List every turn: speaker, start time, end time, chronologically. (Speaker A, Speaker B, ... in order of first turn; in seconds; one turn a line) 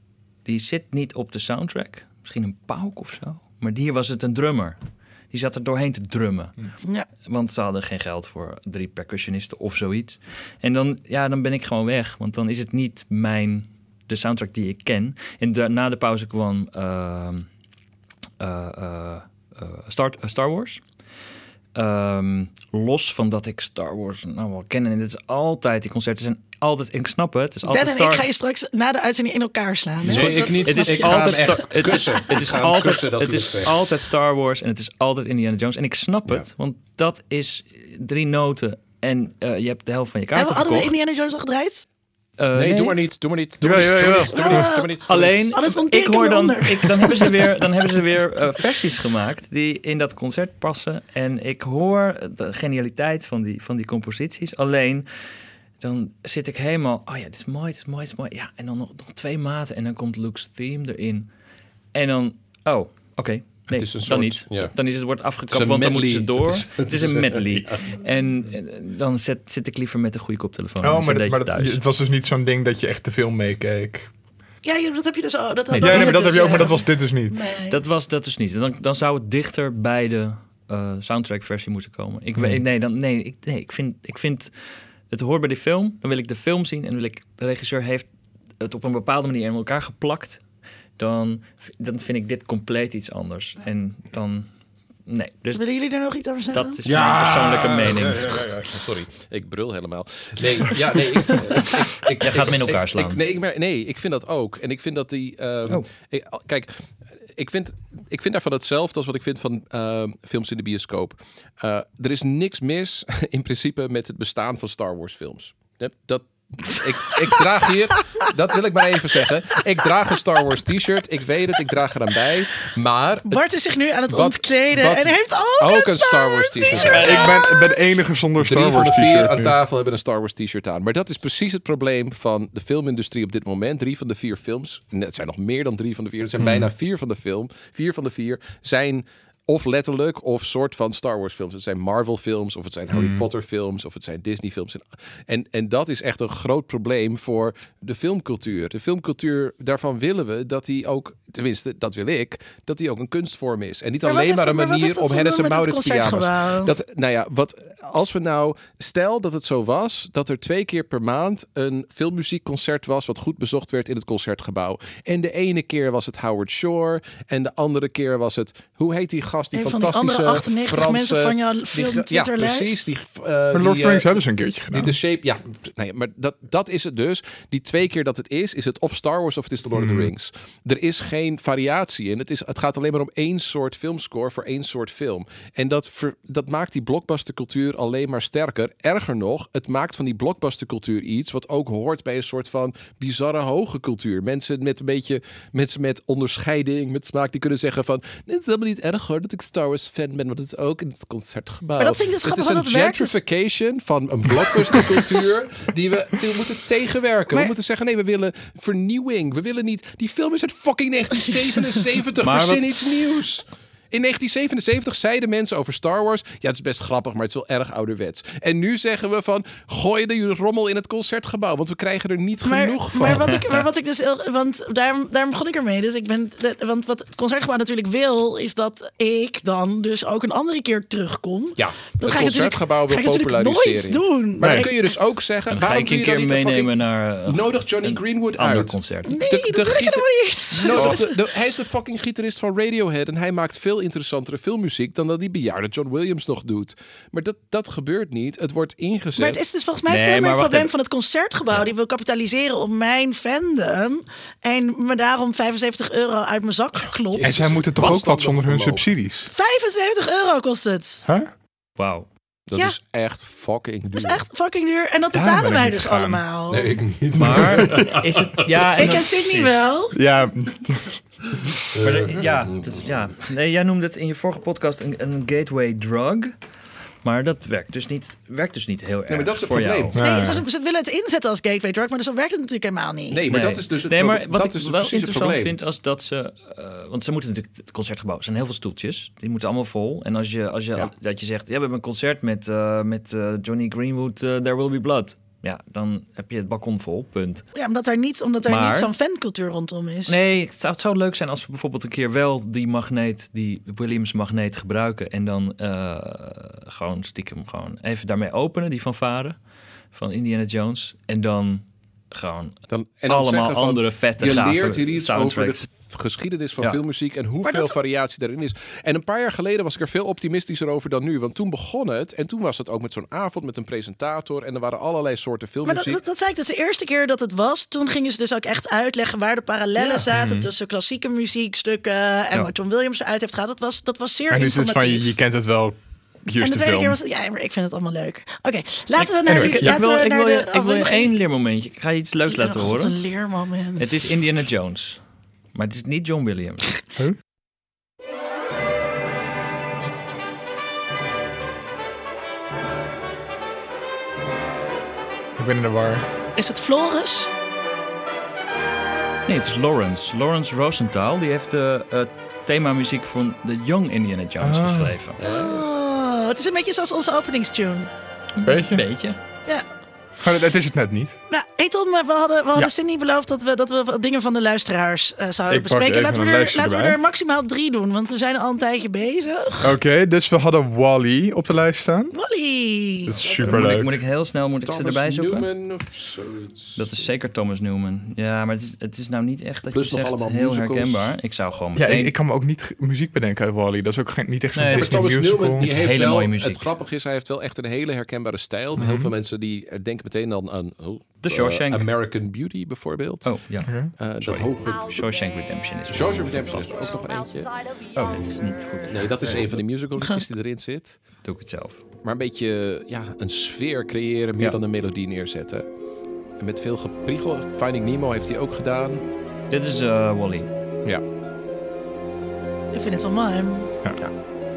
Speaker A: 0.5-4.8
Speaker A: 5.3-6.6
Speaker A: 7.2-17.5
Speaker A: 18.4-20.8
Speaker A: 21.8-28.3
Speaker B: 27.7-32.2
Speaker C: 30.0-33.8
Speaker A: 30.1-40.9
Speaker B: 40.4-41.8
Speaker A: 42.4-43.0
Speaker C: 42.5-45.5
Speaker D: 43.6-44.7
Speaker B: 44.2-45.0
Speaker A: 45.1-55.1
Speaker B: 45.5-47.5
Speaker A: 55.8-61.3
Speaker A: 61.9-71.8
Speaker C: 63.7-64.7
Speaker C: 65.5-67.9
Speaker D: 70.8-74.1
Speaker B: 74.6-77.8
Speaker A: 75.7-76.4
Speaker D: 75.8-77.5
Speaker A: 77.7-84.5
Speaker A: 85.1-88.1
Speaker A: 88.6-90.4
Speaker A: 91.0-94.5
Speaker A: 95.1-95.6
Speaker B: 95.5-96.8
Speaker A: 96.5-98.5
Speaker C: 96.8-106.8
Speaker A: 102.0-103.2
Speaker C: 107.4-123.4
Speaker B: 118.0-118.3
Speaker B: 123.3-127.7
Speaker C: 124.1-127.5
Speaker D: 126.8-129.6
Speaker C: 128.4-223.6
Speaker D: 136.4-136.7
Speaker D: 142.9-143.3
Speaker B: 154.1-156.7
Speaker B: 169.5-172.9
Speaker D: 173.5-175.0
Speaker D: 179.8-180.1
Speaker B: 201.8-203.2
Speaker A: 212.2-212.9
Speaker B: 222.4-234.7
Speaker C: 231.6-236.7
Speaker D: 234.4-234.7
Speaker A: 235.5-239.2
Speaker C: 237.3-249.4
Speaker B: 239.1-241.1
Speaker B: 249.2-257.4
Speaker A: 249.9-250.7
Speaker C: 257.1-258.9
Speaker D: 257.2-259.3
Speaker B: 259.3-261.1
Speaker A: 261.8-262.1
Speaker C: 262.5-264.2
Speaker B: 263.9-266.8
Speaker D: 265.1-266.2
Speaker C: 266.5-268.6
Speaker A: 267.1-269.6
Speaker B: 268.8-270.0
Speaker D: 269.9-271.6
Speaker C: 271.8-272.8
Speaker A: 271.8-276.3
Speaker A: 277.0-280.0
Speaker C: 279.1-280.0
Speaker D: 279.9-280.4
Speaker B: 280.0-283.2
Speaker C: 283.1-285.6
Speaker A: 283.3-297.4
Speaker B: 297.5-300.2
Speaker A: 298.5-298.9
Speaker A: 300.1-309.4
Speaker A: 309.9-315.7
Speaker C: 312.7-326.0
Speaker B: 317.4-317.7
Speaker B: 325.6-335.1
Speaker D: 329.8-330.5
Speaker D: 334.3-337.0
Speaker B: 336.4-341.1
Speaker A: 339.0-343.0
Speaker D: 339.3-339.8
Speaker B: 342.3-343.9
Speaker A: 343.8-345.0
Speaker A: 345.5-346.8
Speaker D: 355.4-356.1
Speaker B: 356.4-357.3
Speaker A: 359.3-365.2
Speaker D: 364.4-365.0
Speaker C: 365.2-365.6
Speaker B: 365.2-367.9
Speaker A: 368.4-369.2
Speaker D: 368.4-368.9
Speaker D: 370.2-371.1
Speaker B: 371.3-379.7
Speaker D: 375.5-377.0
Speaker D: 379.6-382.1
Speaker B: 382.1-383.2
Speaker D: 383.1-383.9
Speaker A: 383.2-385.5
Speaker C: 383.4-383.9
Speaker C: 384.6-386.9
Speaker A: 386.8-392.1
Speaker C: 389.7-391.1
Speaker D: 391.8-395.7
Speaker A: 394.6-396.6
Speaker C: 394.7-403.4
Speaker D: 398.8-399.1
Speaker A: 401.2-401.9
Speaker A: 403.2-407.0
Speaker D: 403.6-403.9
Speaker C: 403.9-405.0
Speaker C: 405.9-407.6
Speaker A: 407.9-409.6
Speaker C: 408.9-411.0
Speaker A: 411.2-411.8
Speaker C: 412.0-415.6
Speaker C: 416.4-419.0
Speaker A: 419.5-420.5
Speaker B: 422.7-423.7